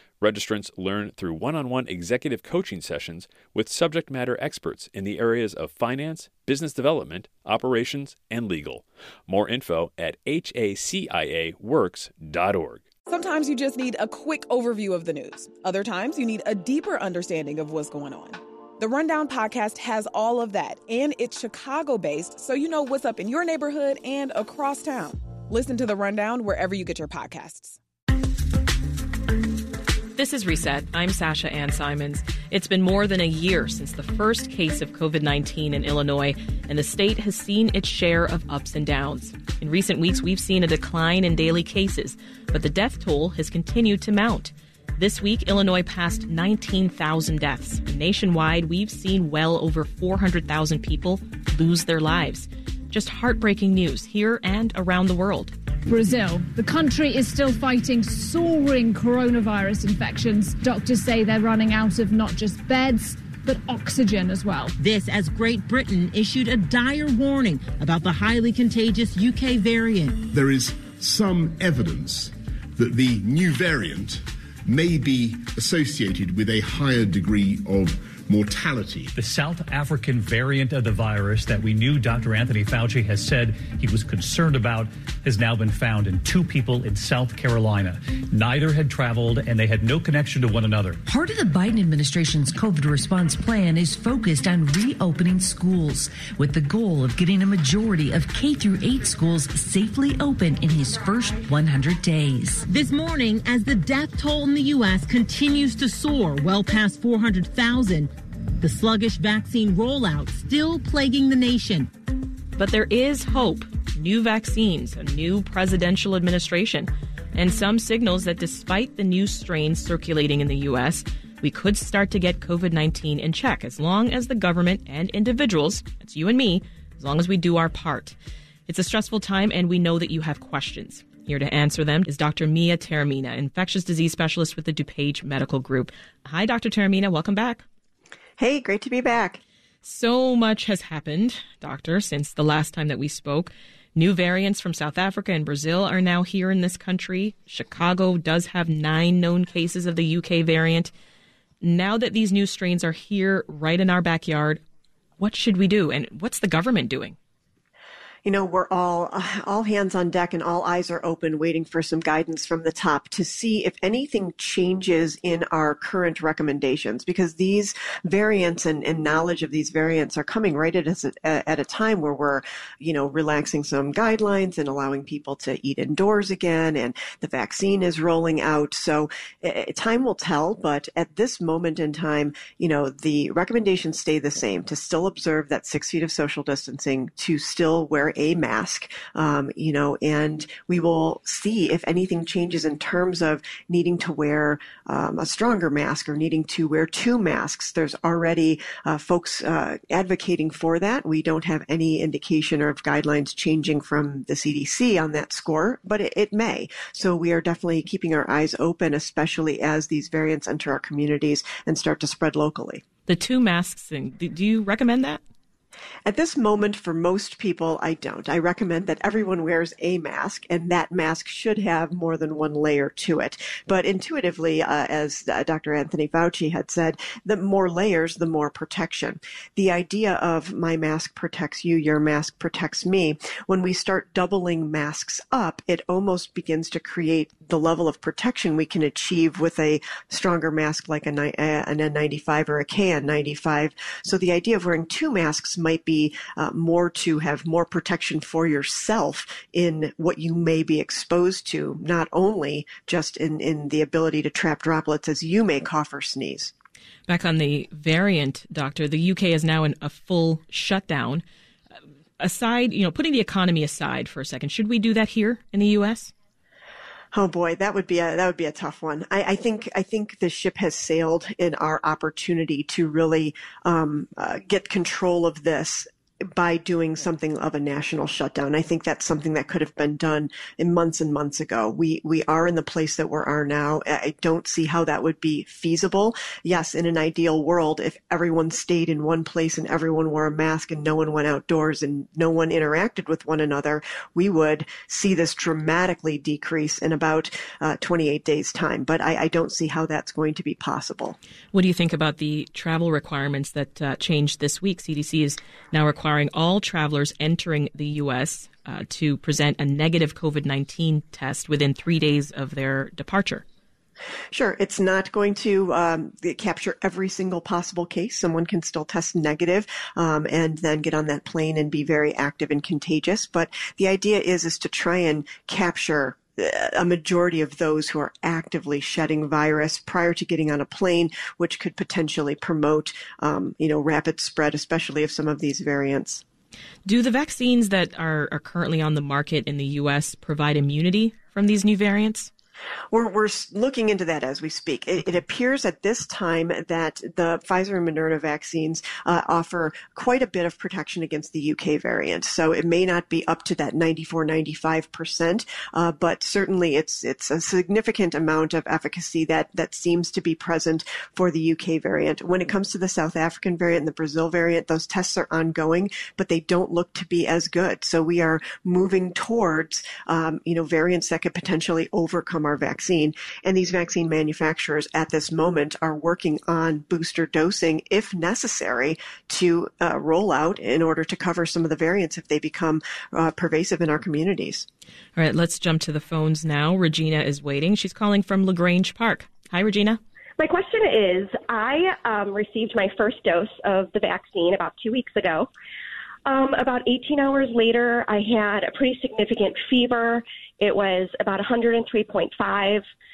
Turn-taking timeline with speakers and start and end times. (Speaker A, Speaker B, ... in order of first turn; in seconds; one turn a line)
Speaker A: 0.2-12.9
Speaker B: 13.1-27.8
Speaker C: 30.1-55.5
Speaker D: 55.9-64.7
Speaker E: 64.8-70.2
Speaker F: 70.3-79.1
Speaker G: 79.2-91.0
Speaker H: 91.0-102.6
Speaker E: 102.7-111.9
Speaker C: 112.5-128.2
Speaker C: 128.7-137.6
Speaker I: 138.4-139.4
Speaker C: 139.8-150.9
Speaker C: 151.6-154.6
Speaker C: 155.2-157.2
Speaker I: 158.2-212.8
Speaker C: 213.1-215.2
Speaker I: 216.1-256.5
Speaker C: 257.1-261.2
Speaker C: 262.2-266.1
Speaker I: 267.1-301.2
Speaker C: 301.5-313.4
Speaker I: 314.3-336.2
Speaker C: 336.8-342.3
Speaker I: 342.9-384.7
Speaker C: 385.1-390.0
Speaker J: 390.4-395.5
Speaker J: 396.2-402.9